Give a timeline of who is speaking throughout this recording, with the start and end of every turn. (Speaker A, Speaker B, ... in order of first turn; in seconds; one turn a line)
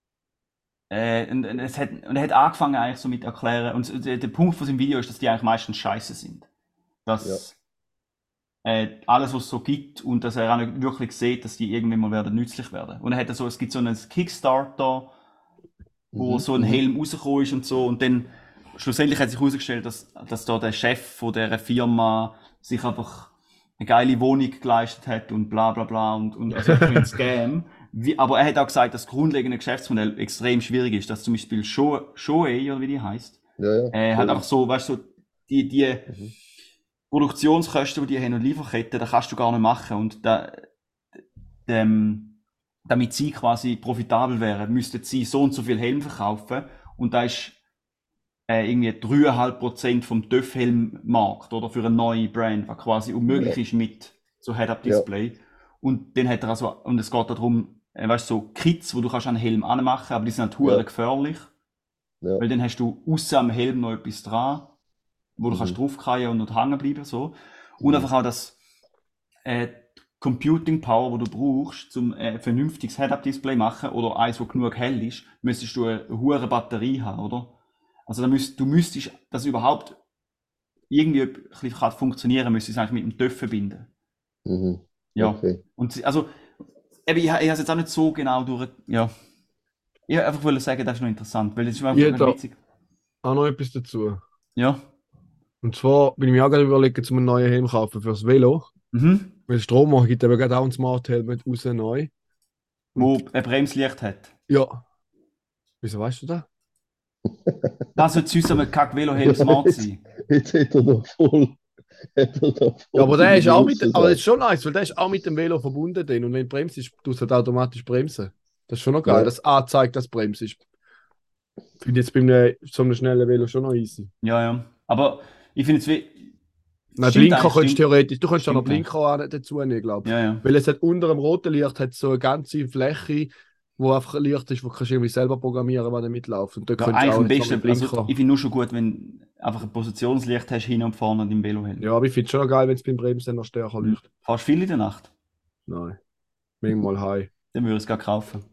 Speaker A: 0.9-6.5
Speaker A: 7.1-7.5
Speaker A: 8.7-15.1
Speaker B: 16.1-16.8
Speaker A: 16.2-33.4
Speaker B: 33.6-34.4
Speaker A: 33.9-36.1
Speaker A: 37.1-40.6
Speaker A: 41.7-42.4
Speaker A: 42.9-47.6
Speaker A: 48.5-61.5
Speaker B: 53.3-53.6
Speaker A: 62.4-64.7
Speaker A: 65.4-68.6
Speaker B: 65.5-65.8
Speaker B: 67.8-68.1
Speaker A: 69.5-77.5
Speaker A: 78.1-80.0
Speaker A: 80.9-83.9
Speaker B: 84.5-85.6
Speaker A: 85.2-86.3
Speaker A: 87.1-89.1
Speaker A: 90.1-92.6
Speaker C: 91.9-92.4
Speaker C: 93.2-94.2
Speaker A: 94.6-94.8
Speaker C: 95.6-98.7
Speaker A: 98.9-99.3
Speaker C: 99.5-102.1
Speaker A: 103.0-104.3
Speaker C: 104.5-104.8
Speaker C: 105.8-106.5
Speaker B: 107.3-107.8
Speaker A: 108.0-110.0
Speaker B: 109.2-111.6
Speaker B: 112.2-114.2
Speaker C: 113.0-120.6
Speaker B: 119.1-119.3
Speaker C: 121.8-124.1
Speaker A: 124.2-126.3
Speaker A: 127.0-127.8
Speaker C: 127.0-138.1
Speaker A: 128.4-128.8
Speaker A: 130.0-130.4
Speaker A: 136.8-141.9
Speaker C: 141.8-144.0
Speaker A: 143.8-145.1
Speaker C: 145.7-146.0
Speaker C: 146.6-147.3
Speaker A: 147.5-148.4